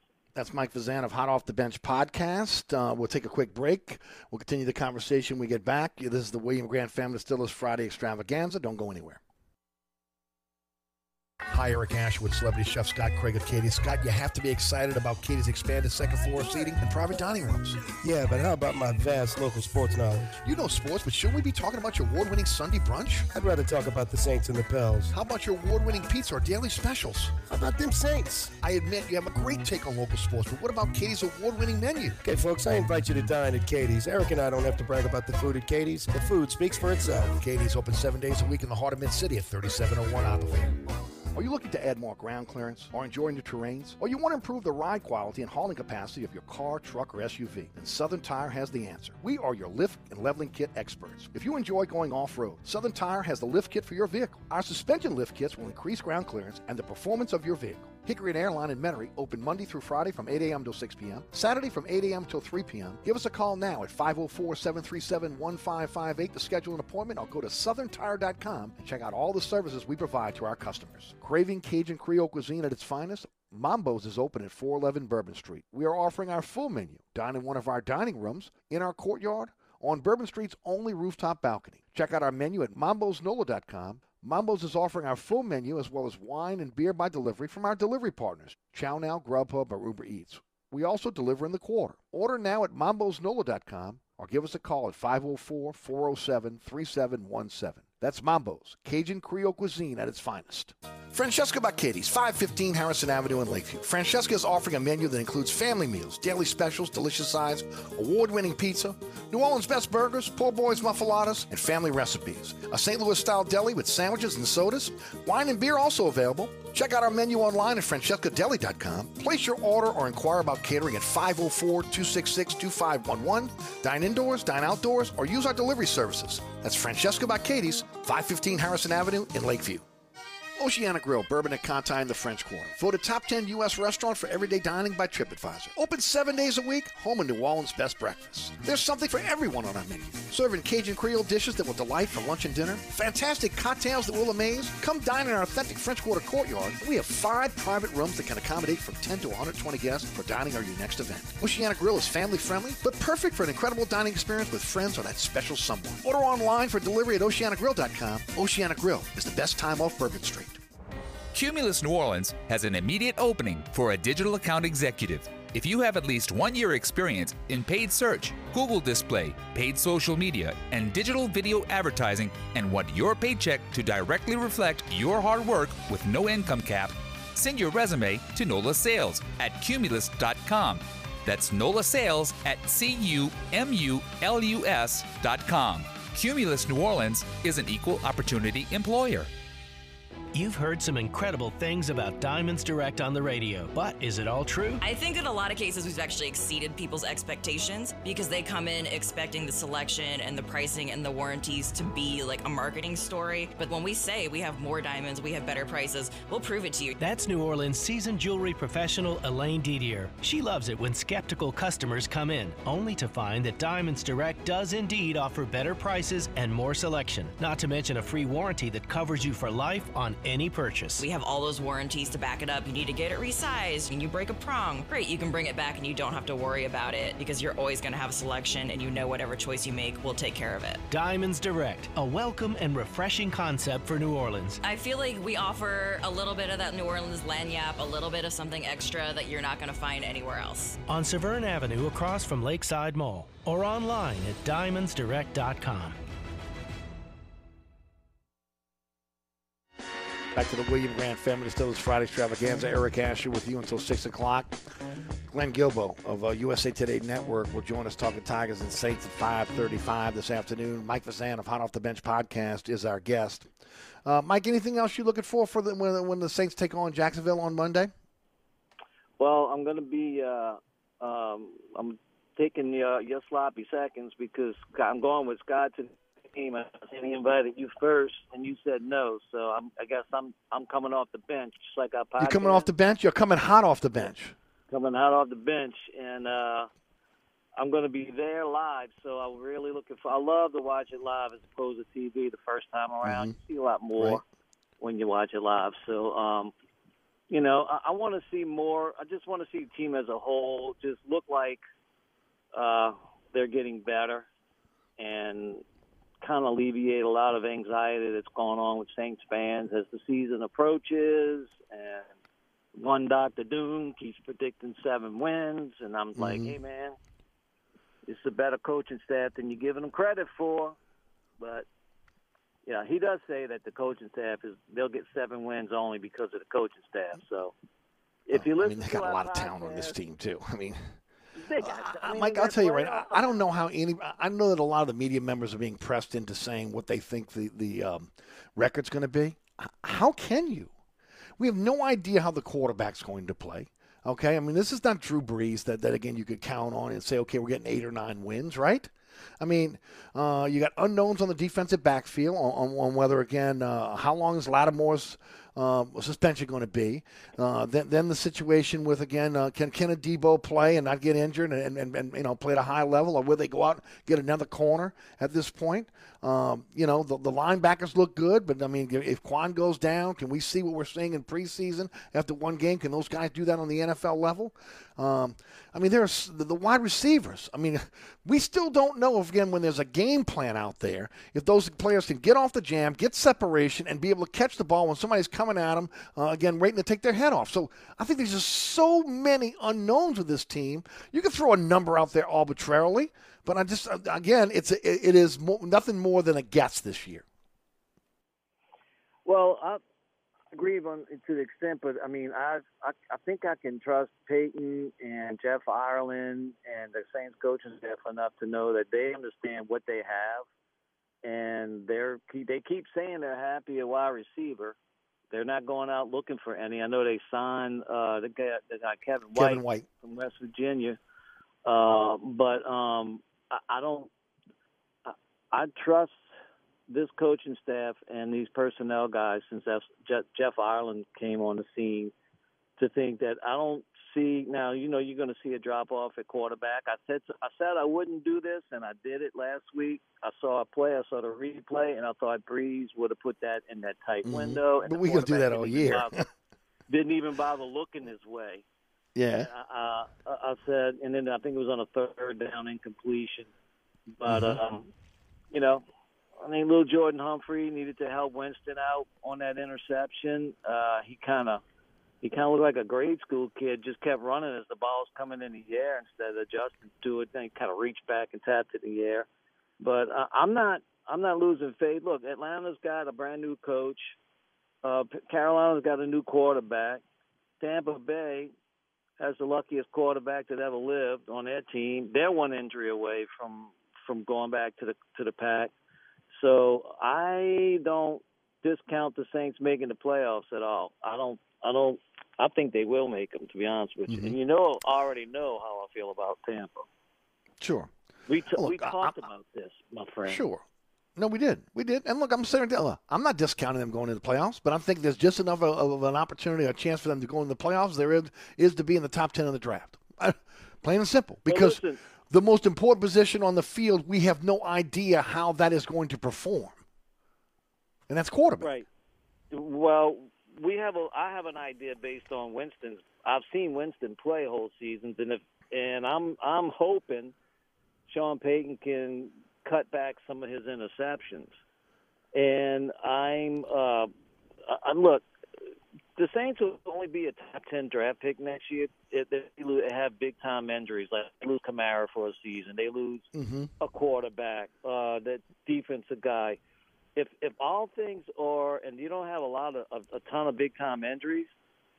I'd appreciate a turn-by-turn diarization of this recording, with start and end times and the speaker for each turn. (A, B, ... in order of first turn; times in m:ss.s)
0:00.3-0:09.2 A
0:11.5-0:17.8 A
0:18.0-0:20.4 B
0:20.4-0:23.3 A
0:23.3-0:25.1 B
0:25.1-0:27.4 A
0:27.5-0:28.5 B
0:28.6-0:32.2 A
0:32.2-0:37.3 B
0:37.4-0:40.8 A
0:41.3-2:09.8 A
2:10.6-2:40.6 A
2:41.3-3:09.3 C
3:10.3-3:14.8 D
3:14.8-3:26.9 E
3:27.0-3:41.0 D
3:41.0-3:50.8 E
3:50.9-3:54.6 D
3:54.6-4:00.8 E
4:00.9-4:06.0 D
4:10.3-4:14.6 A
4:15.3-4:23.5 A
4:24.0-4:27.9 A
4:29.2-4:42.7 F
4:42.2-4:44.3 A
4:44.7-4:46.7 F
4:47.6-4:54.2 F
4:53.0-4:53.4 A
4:54.0-4:54.2 A
4:54.8-4:56.5 F
4:57.3-5:01.6 F
5:02.5-5:04.2 F
5:05.0-5:05.6 F
5:06.2-5:12.0 F
5:12.8-5:17.0 F
5:16.2-5:16.6 A
5:18.0-5:20.7 F
5:21.4-5:21.6 F
5:22.6-5:27.5 F
5:28.3-5:29.9 F
5:28.3-5:30.9 A
5:31.4-5:33.5 F
5:31.6-5:40.7 A
5:41.4-6:37.2 A
6:39.2-6:39.8 F
6:40.5-6:50.4 F
6:51.2-6:54.7 F
6:55.3-7:01.0 F
6:59.3-6:59.8 A
7:01.6-7:04.1 F
7:05.0-7:06.2 F
7:06.9-7:12.1 F
7:12.8-7:26.2 F
7:24.2-7:26.2 A
7:26.9-7:28.6 F
7:29.2-7:29.5 A
7:29.4-7:33.5 F
7:34.2-7:34.9 F
7:34.2-7:34.6 A
7:35.5-7:35.8 F
7:36.4-7:41.6 F
7:42.2-7:49.3 F
7:49.8-7:54.1 F
7:54.8-7:57.0 F
7:57.6-7:58.5 F
7:59.2-8:05.7 F
8:06.3-8:16.8 F
8:14.1-8:14.4 A
8:17.6-8:17.9 A
8:18.3-8:20.4 F
8:18.6-8:19.3 A
8:20.2-8:20.6 A
8:21.2-8:36.8 A
8:31.5-8:32.0 F
8:38.1-8:38.7 A
8:38.6-8:38.8 F
8:39.5-8:47.3 F
8:48.1-8:51.5 F
8:52.3-8:54.1 F
8:54.6-8:55.2 F
8:56.2-9:03.3 F
9:03.3-9:03.7 A
9:03.8-9:06.6 F
9:07.2-9:11.5 F